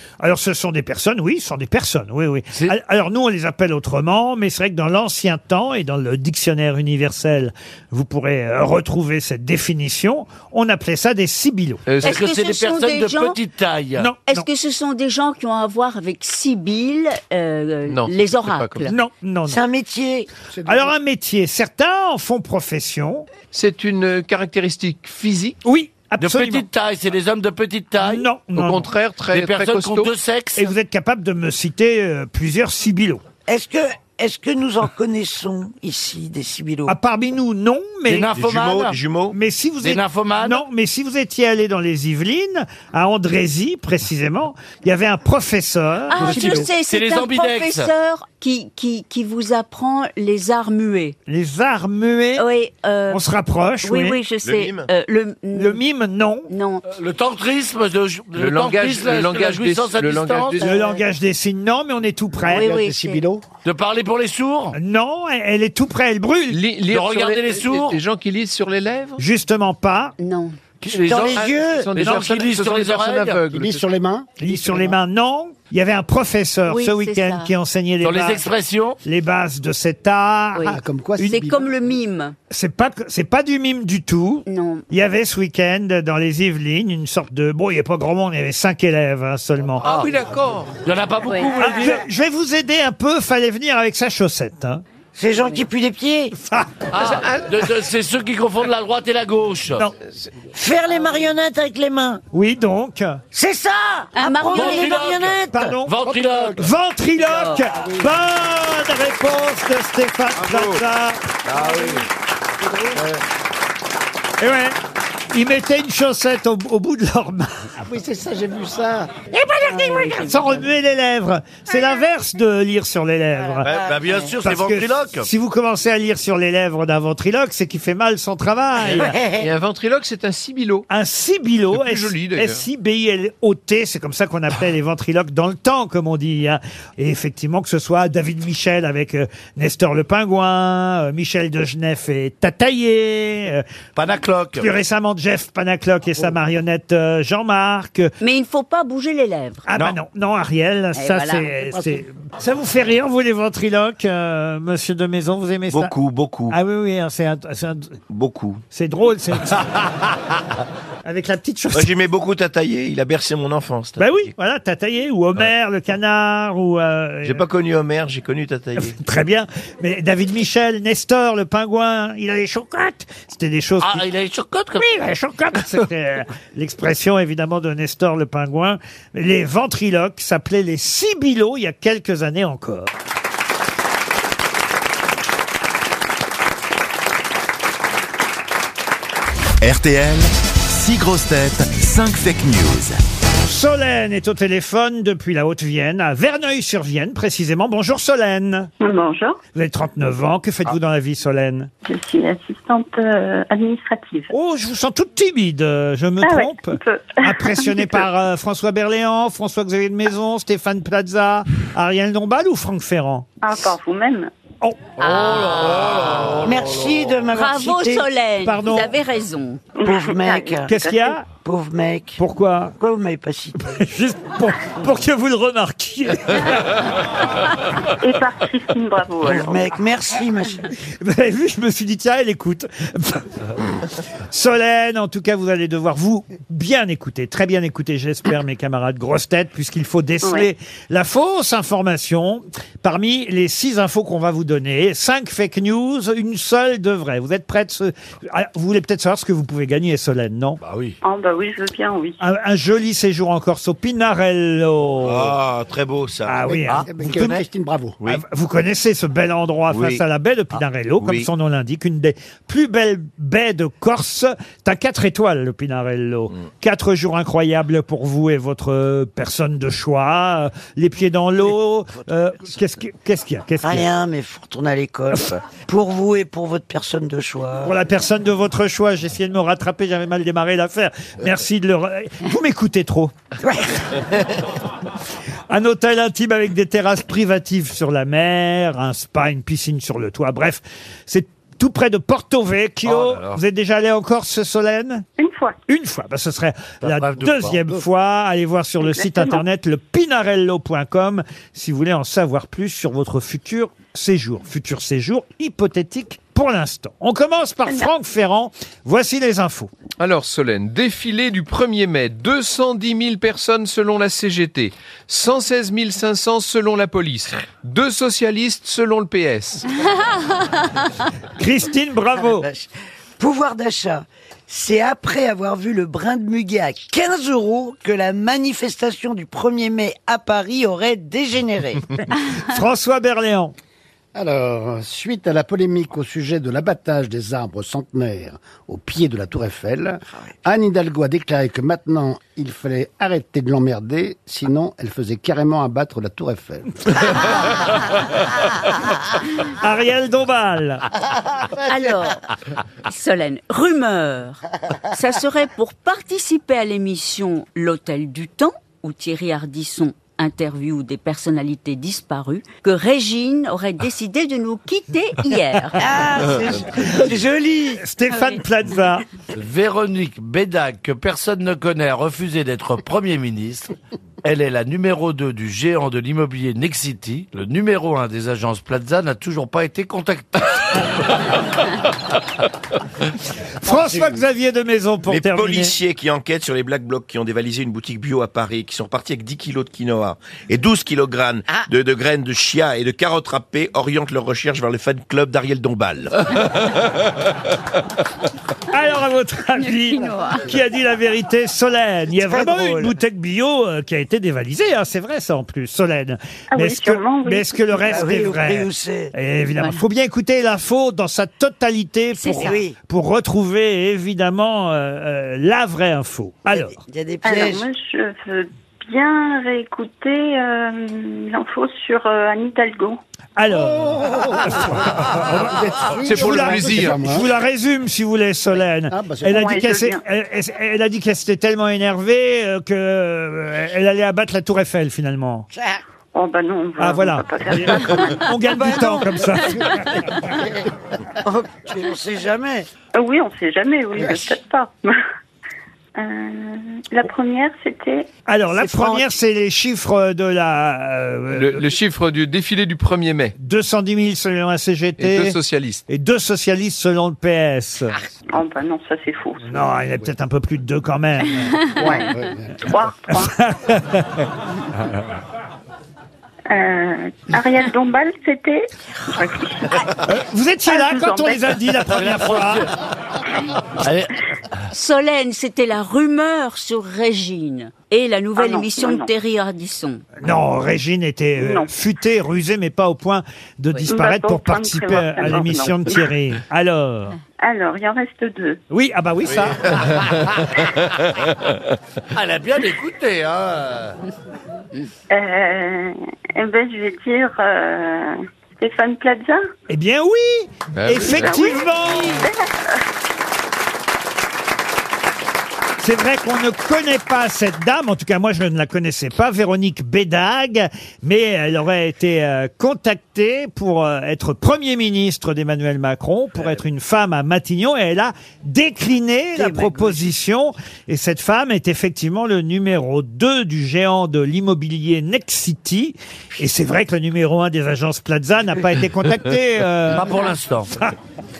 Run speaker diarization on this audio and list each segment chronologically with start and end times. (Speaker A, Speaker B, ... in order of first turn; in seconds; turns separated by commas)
Speaker A: 0.2-11.8, Speaker B: 11.9-12.2, Speaker C: 12.0-14.1, Speaker D: 12.0-13.4, Speaker A: 14.0-14.5, Speaker D: 14.3-18.9, Speaker B: 17.9-18.9, Speaker A: 18.9-19.6, Speaker E: 19.5-20.3, Speaker F: 20.5-20.9, Speaker A: 20.7-23.3, Speaker B: 23.5-25.6, Speaker A: 25.6-26.7, Speaker C: 26.2-28.3, Speaker A: 28.0-28.9, Speaker B: 28.5-30.1, Speaker C: 29.3-30.7, Speaker A: 30.6-33.2, Speaker E: 33.5-36.9, Speaker A: 36.9-38.4, Speaker C: 38.1-39.0, Speaker G: 38.4-39.4, Speaker A: 39.3-46.6, Speaker C: 39.8-40.6, Speaker D: 46.1-51.2, Speaker F: 46.3-46.7, Speaker C: 46.3-47.9, Speaker A: 51.3-52.5, Speaker D: 52.4-53.2, Speaker A: 53.1-54.2, Speaker D: 53.8-55.8, Speaker G: 54.4-54.9, Speaker A: 55.5-56.5, Speaker D: 56.5-56.9, Speaker C: 56.9-60.6, Speaker B: 58.4-60.8, Speaker D: 60.6-61.0, Speaker A: 60.6-62.7, Speaker F: 62.5-63.5, Speaker D: 62.5-63.2, Speaker C: 63.6-64.8, Speaker A: 64.7-66.6, Speaker B: 66.5-69.2, Speaker C: 66.9-68.0, Speaker A: 69.2-70.2, Speaker D: 70.2-70.6, Speaker C: 70.8-73.5, Speaker E: 70.9-71.9, Speaker B: 71.1-73.9, Speaker F: 73.5-74.9, Speaker A: 74.4-78.5, Speaker D: 76.7-77.5, Speaker C: 78.0-79.0, Speaker A: 79.0-81.2, Speaker D: 80.5-82.4, Speaker F: 80.6-81.8, Speaker A: 82.5-89.8, Speaker D: 84.5-84.8, Speaker B: 89.8-90.8, Speaker C: 89.8-90.2, Speaker C: 90.8-92.0, Speaker D: 91.2-91.7, Speaker A: 91.6-94.8, Speaker E: 95.2-96.4, Speaker A: 96.5-96.8, Speaker C: 96.9-99.9, Speaker B: 97.0-97.5, Speaker E: 100.5-102.2, Speaker A: 102.3-103.2, Speaker E: 103.3-105.8, Speaker D: 104.2-105.1, Speaker C: 104.5-106.6, Speaker A: 105.5-106.0, Speaker F: 106.0-106.6, Speaker A: 106.6-111.3, Speaker D: 107.3-107.7, Speaker F: 107.7-108.1, Speaker C: 111.5-112.0, Speaker F: 112.6-113.0, Speaker A: 114.4-114.8, Speaker A: 115.3-117.7, Speaker F: 117.8-119.2, Speaker E: 119.4-120.0, Speaker D: 119.7-120.6, Speaker A: 120.2-123.7, Speaker E: 123.6-124.3, Speaker C: 123.7-125.3, Speaker A: 124.4-129.2, Speaker E: 128.8-129.5, Speaker B: 129.4-130.9, Speaker A: 130.9-143.6, Speaker B: 131.7-132.6, Speaker C: 143.9-144.7, Speaker A: 144.6-148.1, Speaker D: 148.2-149.7, Speaker A: 149.7-155.9, Speaker D: 150.9-151.6, Speaker G: 155.7-156.6, Speaker A: 156.5-158.0, Speaker G: 158.1-158.6, Speaker A: 158.7-159.7, Speaker A: 161.0-161.9, Speaker G: 161.7-164.3, Speaker A: 164.0-167.4, Speaker G: 167.2-168.9, Speaker A: 168.8-174.1, Speaker C: 173.8-174.9, Speaker A: 174.8-182.9, Speaker H: 189.6-193.0, Speaker A: 193.4-198.7, Speaker I: 198.8-199.4, Speaker A: 199.5-201.7, Speaker I: 201.8-204.3, Speaker A: 204.3-213.3, Speaker I: 206.2-208.0, Speaker I: 213.4-214.3, Speaker C: 215.0-217.1, Speaker D: 215.1-215.8, Speaker E: 216.4-218.1, Speaker D: 217.3-219.6, Speaker A: 218.4-218.9, Speaker I: 219.8-221.1, Speaker E: 219.8-220.7, Speaker A: 220.7-221.2, Speaker E: 221.3-222.2, Speaker A: 222.2-222.8, Speaker E: 222.8-223.8, Speaker A: 223.7-226.6, Speaker I: 228.0-229.7, Speaker E: 229.2-230.7, Speaker A: 231.0-233.4, Speaker A: 234.3-250.6, Speaker C: 250.6-251.0, Speaker I: 251.0-252.2, Speaker A: 252.2-255.3, Speaker G: 255.0-256.5, Speaker A: 256.3-257.4, Speaker F: 256.5-258.0, Speaker C: 256.7-257.4, Speaker A: 258.0-273.9, Speaker G: 259.7-260.0, Speaker G: 261.0-261.3, Speaker E: 273.6-277.8, Speaker A: 277.6-283.1, Speaker E: 283.4-284.0, Speaker A: 285.5-295.1, Speaker C: 292.9-293.4, Speaker I: 295.2-295.6, Speaker A: 295.7-309.7, Speaker C: 296.8-297.8, Speaker I: 298.8-299.4, Speaker B: 310.0-319.6, Speaker A: 321.4-322.5, Speaker E: 322.4-322.7, Speaker E: 323.2-331.9, Speaker A: 332.3-333.5, Speaker F: 334.1-347.1, Speaker A: 349.5-350.8, Speaker D: 351.6-352.2, Speaker D: 352.9-365.8, Speaker E: 365.8-367.8, Speaker A: 367.8-369.1, Speaker D: 368.1-368.4, Speaker C: 369.3-380.8, Speaker A: 383.6-385.7, Speaker G: 385.1-396.2, Speaker A: 398.7-416.7, Speaker D: 399.6-400.5, Speaker E: 402.2-403.0, Speaker I: 406.5-407.8, Speaker E: 407.8-409.1, Speaker D: 412.1-412.5, Speaker E: 412.4-412.8, Speaker E: 416.5-417.7, Speaker I: 417.2-423.0, Speaker A: 423.4-435.5, Speaker F: 424.0-427.3, Speaker B: 426.0-427.0, Speaker F: 428.9-429.7, Speaker I: 429.3-430.0, Speaker E: 435.5-435.8, Speaker I: 436.1-438.3, Speaker A: 436.8-440.0, Speaker E: 441.2-442.7, Speaker I: 442.9-445.0, Speaker I: 446.0-448.1, Speaker A: 448.3-451.6, Speaker E: 448.6-448.9, Speaker B: 451.3-453.3, Speaker A: 453.4-455.4, Speaker B: 455.0-455.8, Speaker A: 455.9-457.9, Speaker I: 458.3-459.5, Speaker A: 459.4-461.6, Speaker F: 461.5-462.6, Speaker I: 462.6-463.3, Speaker A: 463.1-464.2, Speaker I: 466.5-469.9, Speaker A: 470.1-472.7, Speaker I: 470.7-471.5, Speaker C: 471.9-472.7, Speaker C: 473.8-474.1, Speaker D: 474.7-480.0, Speaker I: 478.4-479.1, Speaker A: 480.2-487.2, Speaker I: 481.4-481.7, Speaker I: 483.9-486.0, Speaker I: 487.4-488.6, Speaker A: 488.7-489.8, Speaker C: 492.1-494.0, Speaker I: 495.1-499.4, Speaker A: 499.7-502.3, Speaker B: 500.7-501.6, Speaker I: 501.1-502.8, Speaker A: 505.8-530.2, Speaker E: 519.4-519.9, Speaker C: 529.9-530.8